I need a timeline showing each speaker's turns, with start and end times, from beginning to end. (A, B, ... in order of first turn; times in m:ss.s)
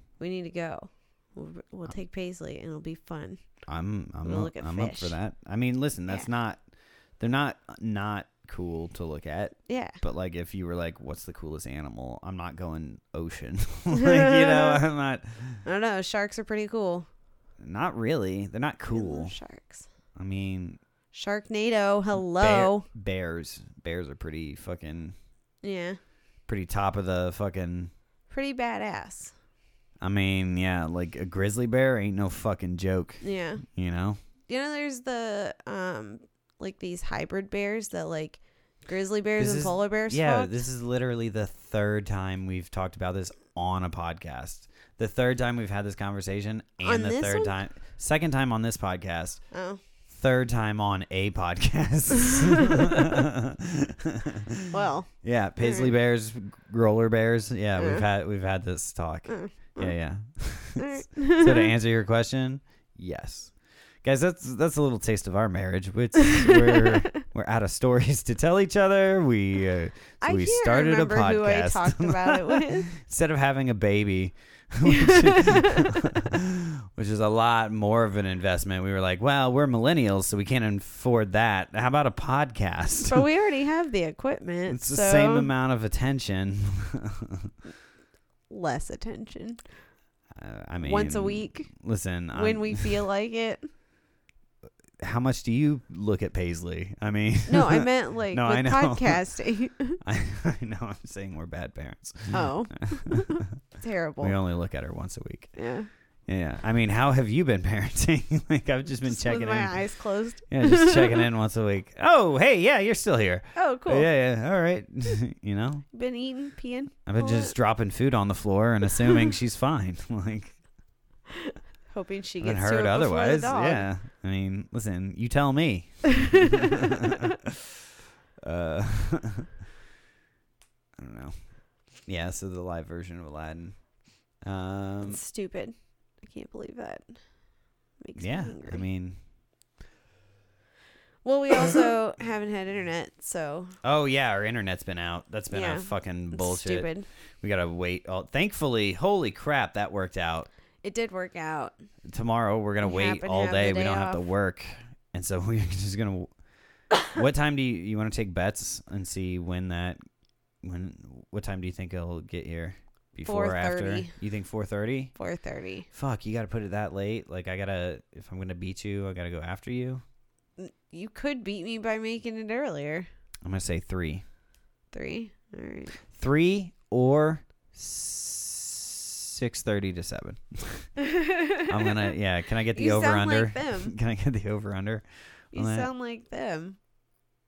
0:00.2-0:03.4 A
0:03.7-0:06.6 B
0:04.2-0:05.2 A
0:07.2-0:15.6 B
0:09.7-0:10.0 A
0:14.0-0:14.8 A
0:15.6-0:17.1 A
0:17.6-0:19.4 B
0:18.9-0:19.9 A
0:20.2-0:20.8 B
0:21.1-0:22.8 A
0:22.2-0:25.2 B
0:25.6-0:26.0 A
0:26.5-0:27.9 B
0:28.3-0:29.3 A
0:30.0-0:34.2 B
0:33.2-0:33.6 A
0:34.5-0:40.6 A
0:39.4-0:49.4 B
0:46.8-0:47.6 A
0:49.5-0:49.8 A
0:50.1-0:54.7 B
0:52.2-0:53.1 A
0:54.7-0:55.9 A
0:55.2-1:23.3 B
0:57.8-0:58.1 A
0:59.3-0:59.9 A
1:00.8-1:01.7 A
1:06.3-1:07.0 A
1:10.2-1:12.9 A
1:14.8-1:15.9 A
1:23.1-1:25.5 A
1:24.7-1:27.5 B
1:28.5-1:29.6 A
1:30.4-1:33.0 B
1:30.8-1:31.7 A
1:32.3-1:33.7 A
1:35.0-1:39.2 B
1:37.5-1:40.0 A
1:40.0-1:43.5 B
1:42.3-1:44.4 A
1:44.2-1:45.6 B
1:45.6-1:45.9 A
1:46.3-1:49.9 B
1:49.0-1:51.3 A
1:50.5-1:55.9 B
1:53.6-1:54.1 A
1:55.9-1:57.5 A
1:57.1-2:00.6 B
1:58.9-1:59.3 A
2:01.3-2:03.9 A
2:02.4-2:07.7 B
2:06.2-2:07.2 A
2:08.4-2:09.5 B
2:11.0-2:11.4 B
2:12.1-2:13.8 B
2:14.4-2:15.2 B
2:15.0-2:17.2 A
2:18.0-2:18.8 A
2:18.2-2:19.2 B
2:21.2-2:23.8 A
2:23.8-2:26.9 B
2:25.5-2:27.1 A
2:27.4-2:30.5 B
2:30.8-2:31.8 A
2:32.0-2:36.3 B
2:32.8-2:34.2 A
2:37.0-2:40.0 B
2:40.6-2:45.1 B
2:43.3-2:44.1 A
2:45.2-2:45.9 A
2:45.9-2:50.0 B
2:50.6-2:53.1 A
2:53.4-2:54.2 B
2:54.9-2:55.9 A
2:56.1-3:00.9 B
3:01.0-3:02.1 A
3:01.6-3:05.9 B
3:02.7-3:03.9 A
3:05.5-3:06.8 A